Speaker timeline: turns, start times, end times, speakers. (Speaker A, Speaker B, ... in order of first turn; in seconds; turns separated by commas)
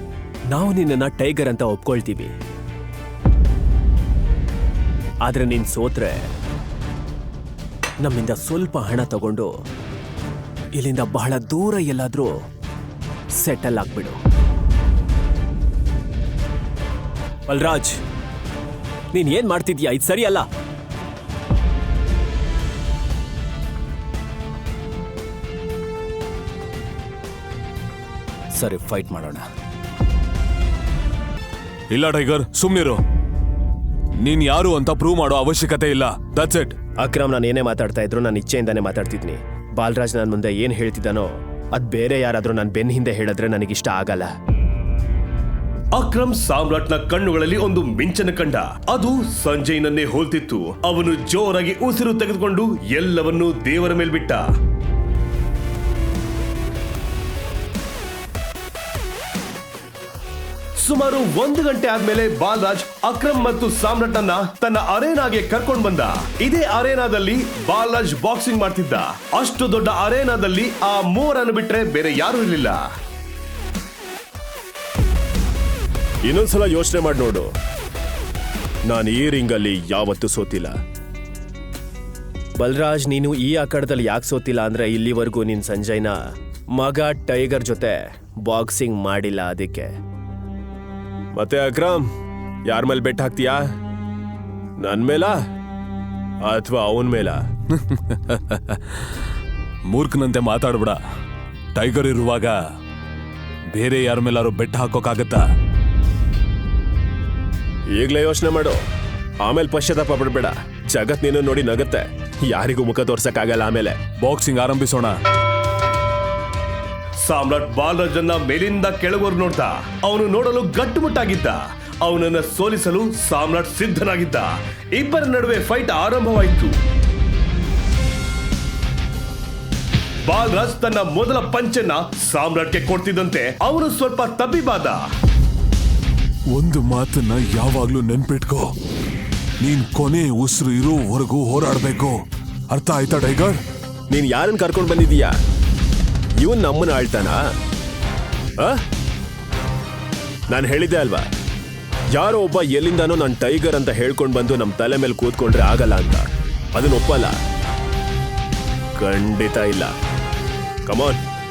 Speaker A: 0.5-2.3, Speaker A: 5.2-6.3, Speaker A: 8.0-9.5, Speaker A: 10.8-12.3, Speaker A: 13.4-14.2, Speaker A: 17.5-18.0, Speaker A: 19.1-20.5, Speaker A: 28.6-29.4, Speaker B: 31.9-33.0, Speaker B: 34.2-36.8, Speaker A: 37.0-44.3, Speaker C: 46.0-54.5, Speaker C: 60.8-72.8, Speaker A: 76.3-77.5, Speaker A: 78.9-80.8, Speaker A: 82.6-86.2, Speaker A: 86.8-89.9, Speaker A: 91.3-92.1, Speaker A: 92.7-93.7, Speaker A: 94.8-95.4, Speaker A: 96.5-97.4, Speaker B: 97.7-99.0, Speaker B: 99.9-101.0, Speaker B: 101.8-102.6, Speaker B: 103.7-105.5, Speaker A: 108.0-108.8, Speaker A: 109.4-114.0, Speaker B: 114.2-115.2, Speaker C: 117.2-126.8, Speaker C: 130.3-135.0, Speaker B: 136.5-138.7, Speaker B: 139.6-142.2, Speaker B: 142.7-143.6, Speaker A: 144.1-145.4, Speaker A: 146.4-147.4, Speaker A: 150.5-151.3, Speaker A: 152.1-157.4, Speaker A: 159.0-159.9, Speaker A: 160.9-161.2